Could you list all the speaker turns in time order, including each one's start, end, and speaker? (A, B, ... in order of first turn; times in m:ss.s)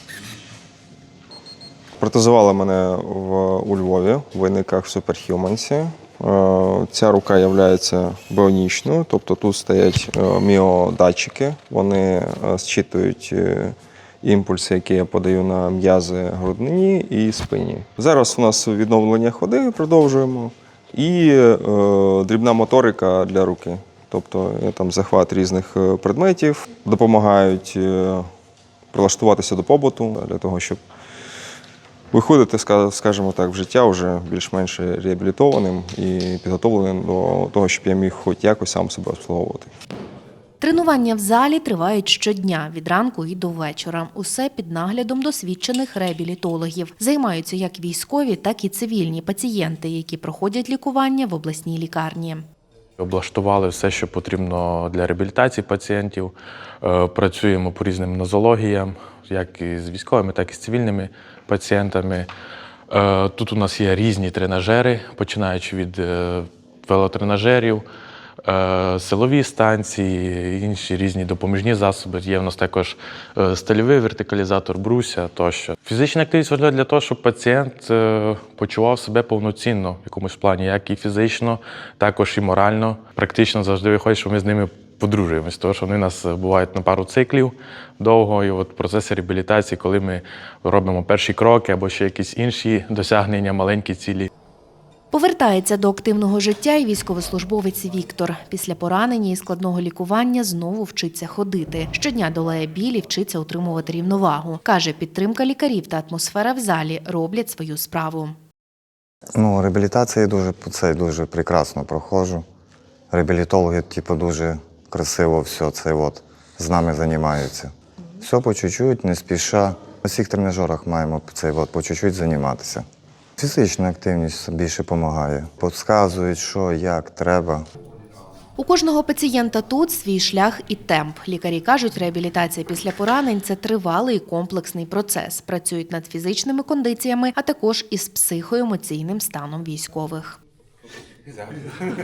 0:02.0-0:28.3 A
0:28.9-0:30.8 A
0:32.1-0:39.7 A
0:40.6-0:52.4 B
0:53.0-1:02.3 C
1:02.9-1:07.8 C
1:08.4-1:34.3 C
1:35.1-1:48.4 B
1:49.4-1:52.4 D
1:53.1-2:02.8 D
2:03.4-2:07.6 D
2:08.6-2:20.4 B